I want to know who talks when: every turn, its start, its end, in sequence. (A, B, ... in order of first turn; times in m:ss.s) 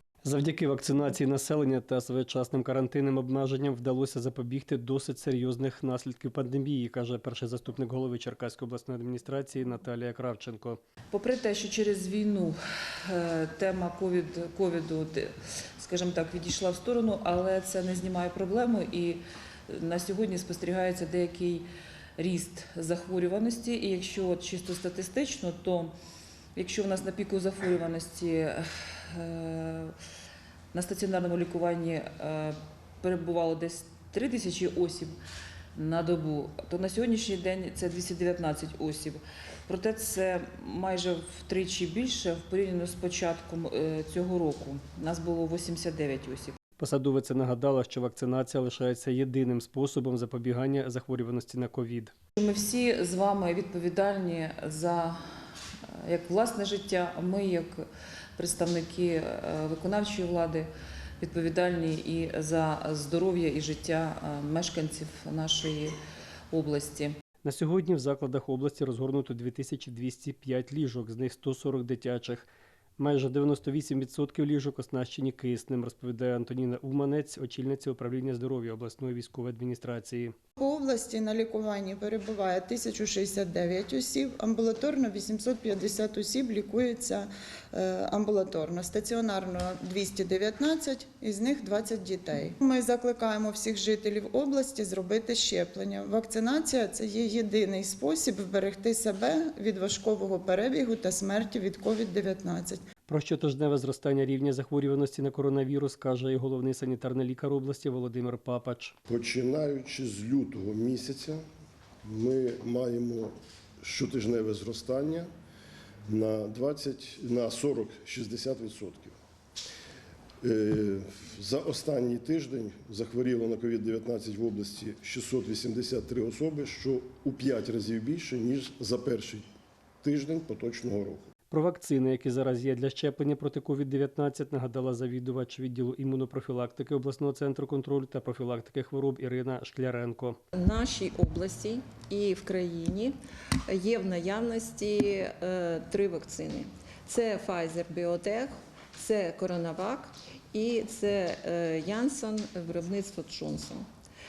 0:00.2-0:10.8 A
0:11.1-0:25.9 B
0:26.6-0:30.0 B
0:30.7-0:35.2 B
0:35.8-0:46.6 B
0:46.8-0:52.1 A
0:52.4-0:55.2 B
0:56.0-0:57.9 B
0:58.4-1:00.7 B
1:01.2-1:06.0 B
1:06.5-1:07.2 B
1:07.4-1:20.4 A
1:20.6-1:42.8 C
1:43.1-1:49.0 A
1:49.1-1:51.4 D
1:52.0-1:55.3 D
1:56.1-1:59.2 D
2:00.4-2:09.5 D
2:10.0-2:11.3 D
2:11.5-2:20.4 A
2:20.5-2:23.2 E
2:23.7-2:33.9 E